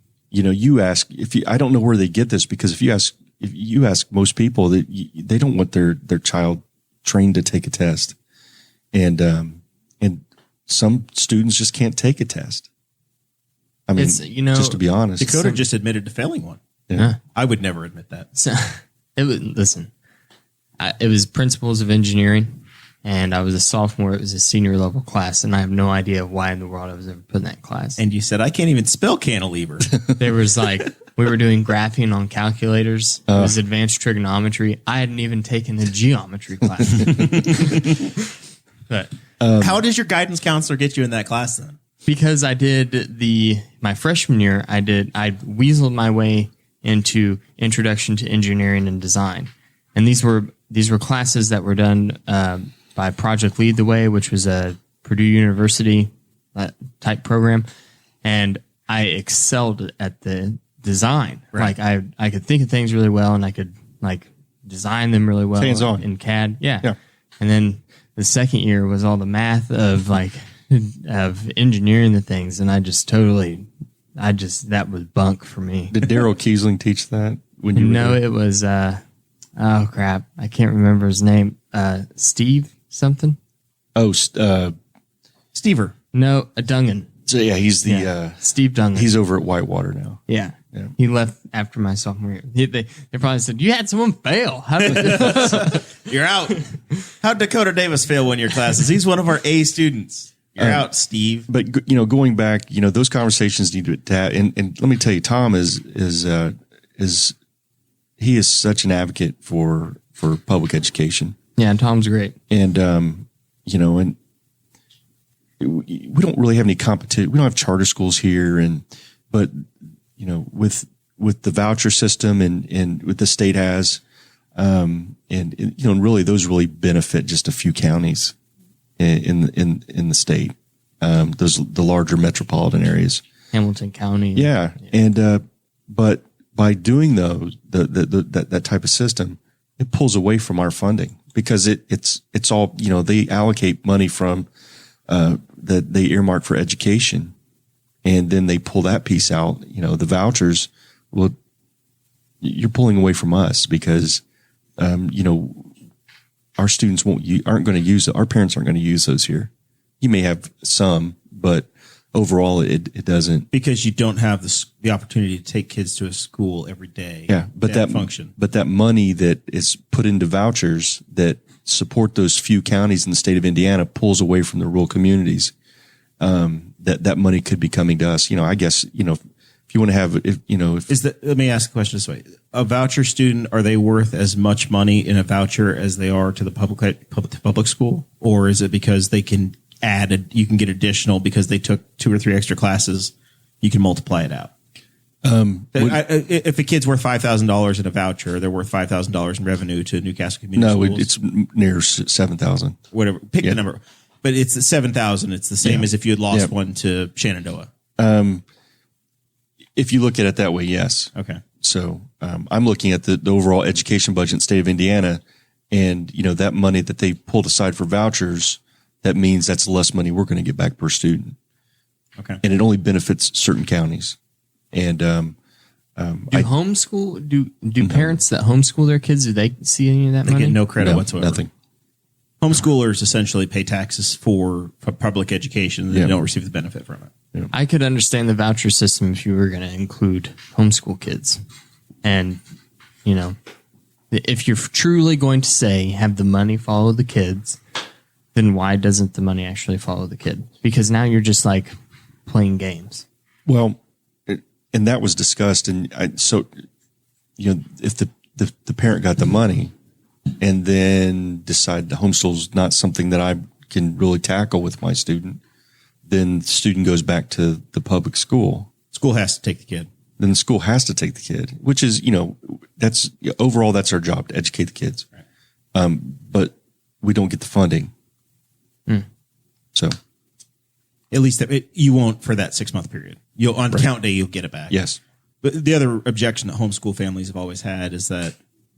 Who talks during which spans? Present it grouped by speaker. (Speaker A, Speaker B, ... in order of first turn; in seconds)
Speaker A: 0.3-8.2, 8.9-12.7, 13.9-15.4, 33.3-33.6, 39.4-39.8, 65.5-66.1, 75.9-78.2, 84.0-84.7, 87.3-90.2, 100.6-100.9, 101.5-107.3, 108.2-111.3, 112.5-114.1, 115.6-124.0, 124.5-128.3, 129.0-133.2, 134.3-144.5, 145.1-147.3, 148.0-151.3, 152.4-154.2, 154.8-155.7, 156.6-163.5, 167.3-175.5, 176.2-179.2, 179.7-180.9, 195.2-196.0, 200.6-202.8, 205.6-206.5, 208.0-208.4, 209.8-221.3, 222.4-224.2, 224.7-225.3, 226.0-226.5, 227.8-228.2, 230.8-231.5, 253.4-256.5, 257.4-259.7, 260.4-265.4, 266.1-268.7, 270.2-275.1, 275.7-277.9, 284.7-285.0
Speaker B: 13.9-15.6, 18.4-19.9, 20.8-28.0, 30.1-38.0, 42.0-57.7, 58.2-76.1, 77.7-79.0, 79.6-83.4, 86.1-87.1, 87.8-89.1, 90.3-95.8, 111.6-112.3, 133.5-134.7, 226.3-230.6, 237.5-241.4, 242.0-242.4, 243.0-243.4, 244.1-247.6, 248.3-251.7, 252.3-253.0
Speaker C: 15.2-16.6, 17.3-18.3, 28.0-30.0, 39.6-41.8, 85.5-85.9, 94.8-96.7, 97.2-101.5, 163.5-168.3, 180.9-194.5, 195.7-201.1, 202.9-207.7, 211.1-211.4, 230.2-231.4, 232.4-237.1, 268.9-269.9, 281.1-284.8, 285.4-288.4